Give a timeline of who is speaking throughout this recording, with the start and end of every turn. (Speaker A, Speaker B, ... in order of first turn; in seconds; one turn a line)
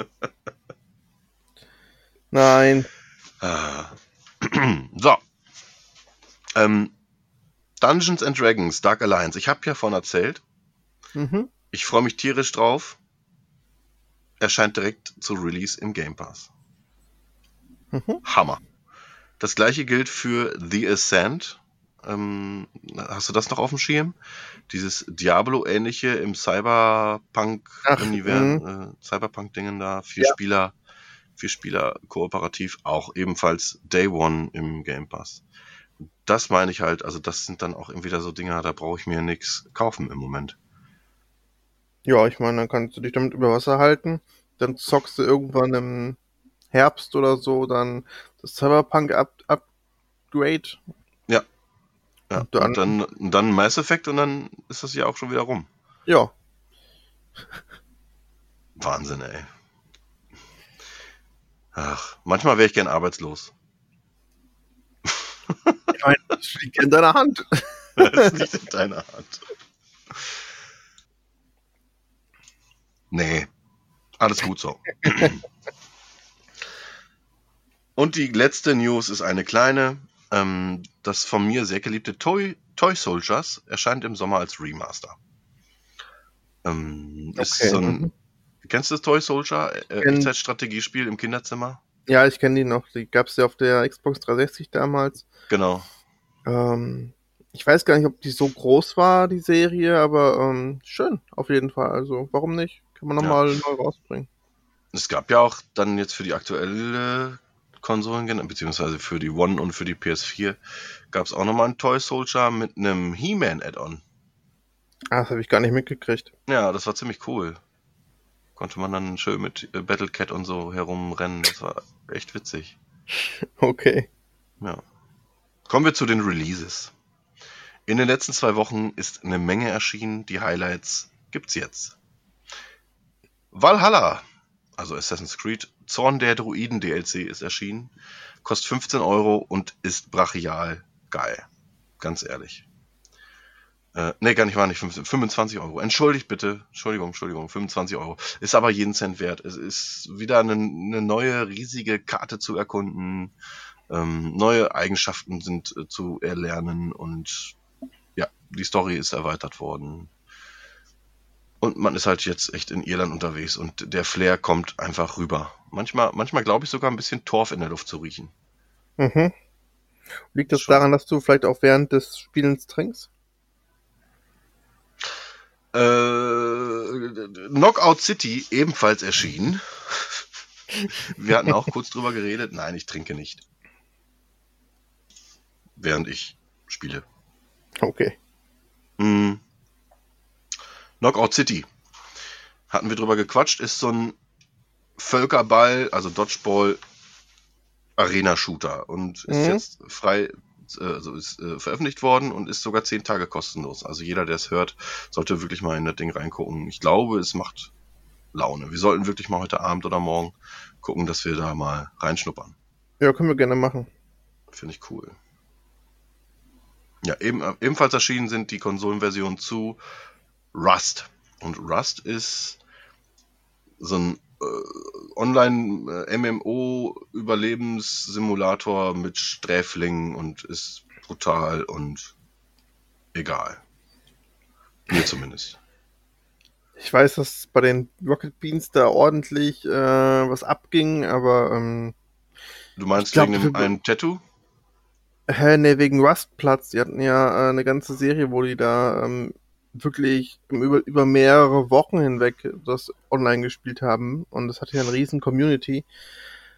Speaker A: 2.3-2.9
Speaker B: 3.4-5.2
Speaker B: 6.5-6.9
Speaker B: 7.8-10.4
Speaker A: 11.1-11.5
Speaker B: 11.7-13.0
Speaker B: 14.4-16.5
Speaker A: 17.9-18.2
Speaker B: 18.2-18.6
Speaker B: 19.4-24.1
Speaker B: 24.7-30.7
Speaker A: 27.8-28.6
Speaker B: 31.4-35.4
Speaker B: 36.2-40.5
Speaker A: 42.0-46.2
Speaker A: 46.7-49.6
Speaker A: 50.3-50.8
Speaker B: 52.3-55.7
Speaker A: 52.4-52.9
Speaker A: 56.1-56.3
Speaker B: 58.8-59.5
Speaker B: 61.7-63.5
Speaker B: 65.1-65.8
Speaker A: 66.0-68.3
Speaker B: 68.0-69.4
Speaker B: 73.1-73.5
Speaker B: 74.2-75.4
Speaker B: 78.0-85.2
Speaker B: 86.6-88.0
Speaker A: 87.4-88.1
Speaker B: 88.6-91.8
Speaker A: 90.0-90.3
Speaker A: 92.1-95.2
Speaker B: 95.5-95.9
Speaker A: 96.5-104.3
Speaker B: 103.2-103.5
Speaker B: 104.9-110.6
Speaker B: 111.1-114.0
Speaker A: 115.1-116.3
Speaker B: 116.5-117.6
Speaker B: 118.5-122.8
Speaker A: 123.6-124.1
Speaker B: 125.7-126.9
Speaker B: 127.9-131.9
Speaker B: 133.5-134.2
Speaker B: 134.8-137.9
Speaker B: 138.4-141.4
Speaker B: 142.0-142.6
Speaker B: 143.9-153.3
Speaker B: 153.9-157.5
Speaker B: 158.2-160.1
Speaker B: 161.6-168.3
Speaker A: 169.0-169.3
Speaker A: 170.3-173.1
Speaker B: 170.5-170.8
Speaker B: 175.7-180.2
Speaker B: 181.0-183.4
Speaker B: 185.8-187.0
Speaker A: 187.8-188.1
Speaker B: 189.0-189.4
Speaker B: 191.0-191.7
Speaker B: 192.7-194.2
Speaker B: 195.0-196.8
Speaker B: 198.0-207.7
Speaker A: 199.3-199.6
Speaker B: 208.3-212.6
Speaker A: 213.0-213.9
Speaker B: 214.5-215.2
Speaker B: 217.0-219.8
Speaker B: 220.5-222.6
Speaker B: 223.8-232.1
Speaker B: 233.1-233.6
Speaker B: 234.9-235.6
Speaker A: 236.8-241.9
Speaker B: 242.8-244.2
Speaker A: 242.9-243.7
Speaker A: 245.3-255.8